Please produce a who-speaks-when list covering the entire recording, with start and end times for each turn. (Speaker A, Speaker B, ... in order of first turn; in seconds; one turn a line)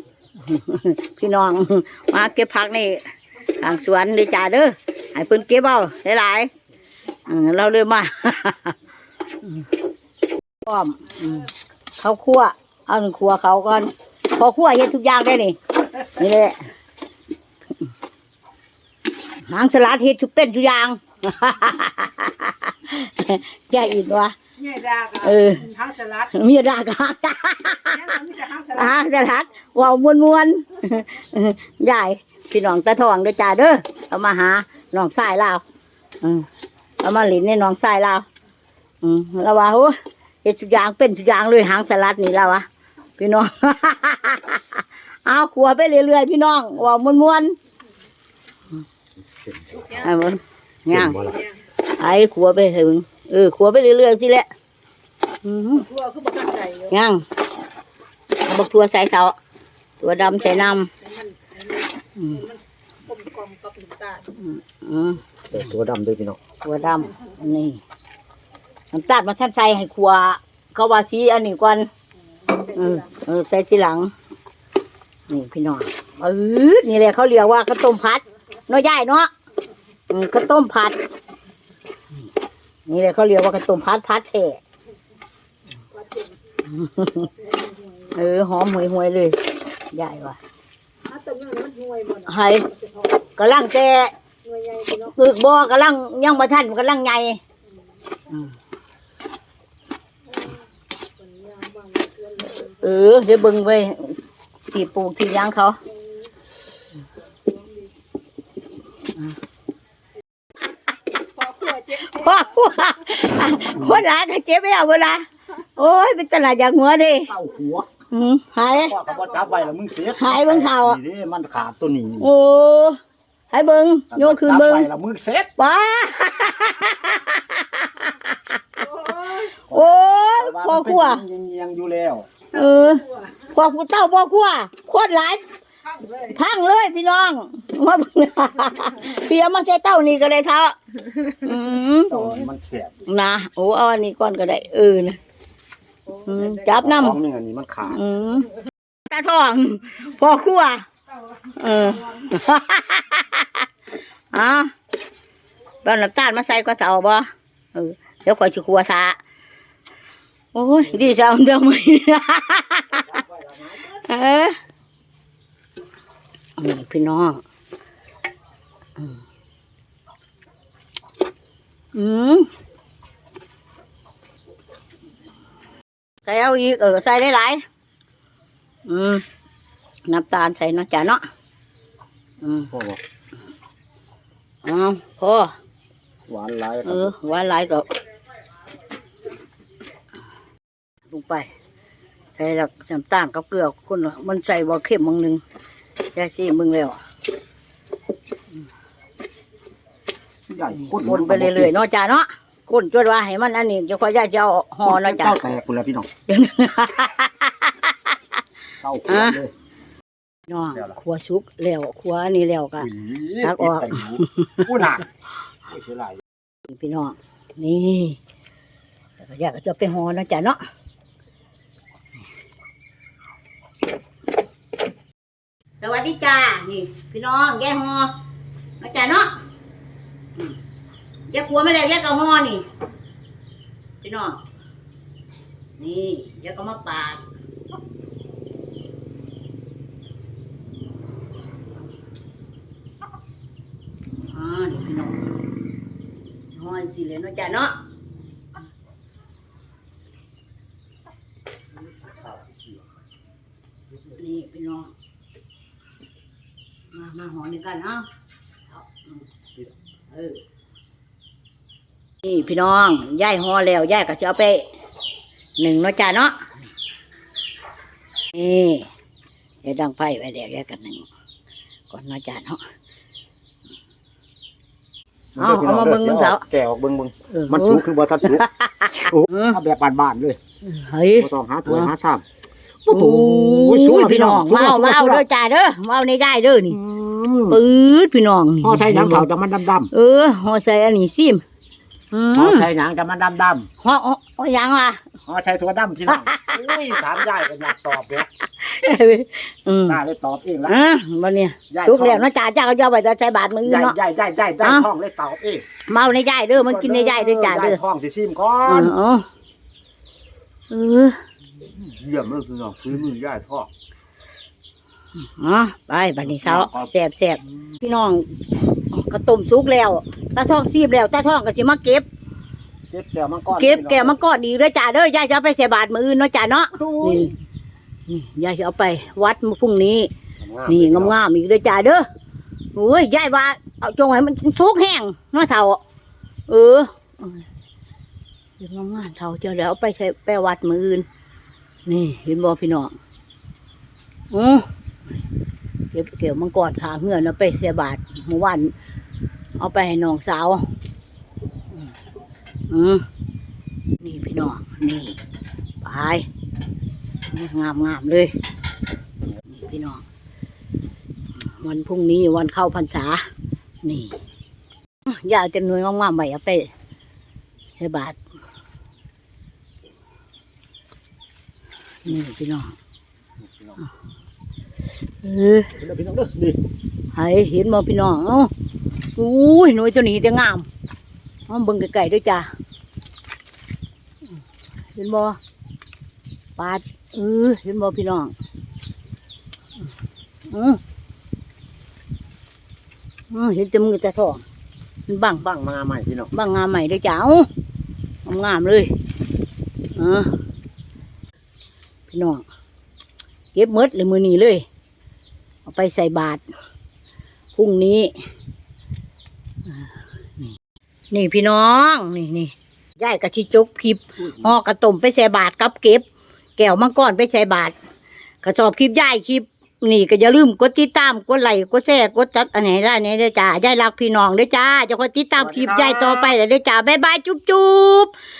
Speaker A: 0.4-6.5
Speaker A: 7.3-8.8
Speaker A: 9.4-9.7
Speaker A: 10.6-16.7
Speaker A: 19.4-35.6
Speaker A: 36.2-36.5
Speaker A: 37.0-38.2
Speaker A: 39.0-42.6
Speaker A: 43.2-47.5
Speaker B: 49.5-49.9
Speaker A: 49.9-54.5
Speaker B: 50.9-51.4
Speaker A: 55.4-56.0
Speaker C: 56.0-56.8
Speaker A: 56.6-57.2
Speaker A: 58.4-59.3
Speaker A: 60.0-60.9
Speaker C: 61.0-61.8
Speaker A: 62.1-62.5
Speaker C: 63.1-64.2
Speaker A: 64.2-65.2
Speaker B: 65.5-66.4
Speaker A: 66.6-67.8
Speaker A: 68.9-71.9
Speaker A: 72.5-74.1
Speaker A: 75.3-79.3
Speaker A: 80.1-81.0
Speaker A: 82.8-84.6
Speaker A: 86.6-87.3
Speaker A: 88.1-90.4
Speaker C: 91.1-92.2
Speaker A: 92.2-94.1
Speaker C: 94.5-94.8
Speaker A: 94.8-97.4
Speaker C: 101.2-102.5
Speaker A: 102.5-105.8
Speaker A: 111.4-117.3
Speaker B: 117.3-117.9
Speaker A: 118.1-119.0
Speaker B: 118.7-122.3
Speaker A: 120.0-121.0
Speaker A: 122.2-123.0
Speaker A: 123.5-124.9
Speaker B: 124.1-125.5
Speaker A: 125.6-131.2
Speaker B: 129.7-132.3
Speaker A: 132.5-135.4
Speaker A: 136.0-142.3
Speaker B: 142.1-142.9
Speaker A: 143.1-145.2
Speaker A: 146.1-147.2
Speaker B: 146.6-148.0
Speaker A: 147.8-148.5
Speaker A: 149.1-153.7
Speaker A: 154.3-154.7
Speaker A: 155.8-159.2
Speaker A: 160.5-163.2
Speaker B: 163.1-163.8
Speaker A: 163.7-164.6
Speaker A: 166.6-167.4
Speaker A: 171.9-172.5
Speaker A: 176.2-177.6
Speaker A: 178.8-179.2
Speaker A: 180.1-181.2
Speaker A: 182.4-182.7
Speaker B: 182.7-183.0
Speaker A: 184.6-185.5
Speaker B: 186.3-187.1
Speaker A: 186.8-187.9
Speaker A: 191.1-191.5
Speaker A: 192.3-195.4
Speaker A: 196.1-197.0
Speaker B: 200.5-201.7
Speaker A: 200.7-205.6
Speaker B: 204.8-206.1
Speaker A: 206.3-207.9
Speaker B: 208.8-209.5
Speaker A: 209.1-209.4
Speaker A: 210.5-214.8
Speaker B: 212.8-215.1
Speaker B: 215.7-216.2
Speaker A: 216.7-218.2
Speaker A: 219.2-220.6
Speaker A: 225.8-228.1
Speaker A: 228.8-229.3
Speaker A: 231.3-232.6
Speaker A: 234.0-234.4
Speaker A: 235.8-237.2
Speaker A: 244.3-245.3
Speaker A: 246.5-247.8
Speaker B: 251.9-252.8
Speaker A: 254.1-254.9
Speaker A: 256.9-258.1
Speaker A: 258.7-259.2
Speaker A: 260.1-260.4
Speaker A: 262.2-264.7
Speaker A: 265.6-266.5
Speaker A: 268.3-268.9
Speaker A: 269.6-271.1
Speaker A: 271.9-272.6
Speaker B: 275.3-280.4
Speaker A: 275.4-276.4
Speaker A: 277.3-279.6
Speaker A: 280.6-281.9
Speaker B: 281.2-282.2
Speaker B: 282.8-285.2
Speaker A: 282.9-286.8
Speaker B: 286.7-287.6
Speaker A: 287.5-289.3
Speaker B: 288.6-289.9
Speaker A: 289.9-291.4
Speaker A: 292.1-292.7
Speaker B: 292.3-293.7
Speaker A: 293.8-295.0
Speaker B: 295.2-298.3
Speaker A: 296.1-297.0
Speaker A: 298.4-300.0
Speaker B: 299.9-300.8
Speaker A: 300.7-303.9
Speaker B: 301.7-302.3
Speaker B: 303.6-305.6
Speaker A: 304.6-304.9
Speaker A: 305.9-307.8
Speaker B: 306.5-308.9
Speaker A: 308.6-309.3
Speaker A: 310.7-311.2
Speaker B: 311.7-313.7
Speaker A: 315.1-322.0
Speaker B: 316.2-316.9
Speaker B: 322.9-324.2
Speaker A: 323.5-327.3
Speaker B: 326.7-327.3
Speaker A: 328.1-330.1
Speaker B: 330.4-331.1
Speaker A: 330.7-332.0
Speaker A: 332.7-335.8
Speaker A: 336.5-337.4
Speaker A: 338.6-341.1
Speaker A: 341.9-342.9
Speaker A: 344.3-344.7
Speaker A: 345.9-348.7
Speaker A: 349.6-350.6
Speaker A: 352.7-353.0
Speaker A: 354.0-355.2
Speaker A: 355.8-356.3
Speaker A: 357.3-358.3
Speaker A: 359.5-360.0
Speaker A: 361.4-363.3
Speaker A: 363.8-364.1
Speaker A: 365.1-366.7
Speaker A: 367.7-368.2
Speaker A: 372.0-372.7
Speaker B: 373.5-373.8
Speaker A: 375.2-375.7
Speaker B: 375.7-376.6
Speaker A: 377.1-378.5
Speaker A: 379.1-380.7
Speaker A: 381.5-382.5
Speaker A: 384.9-385.4
Speaker A: 386.6-388.3
Speaker A: 390.5-390.8
Speaker A: 393.3-394.4
Speaker A: 395.1-395.4
Speaker B: 395.4-396.3
Speaker A: 396.3-397.5
Speaker A: 398.2-398.9
Speaker A: 399.9-400.4
Speaker A: 402.1-402.4
Speaker A: 403.5-404.6
Speaker A: 405.6-406.4
Speaker A: 407.5-408.2
Speaker A: 409.7-410.5
Speaker A: 411.1-416.0
Speaker A: 416.6-417.7
Speaker A: 418.4-428.1
Speaker B: 425.4-426.4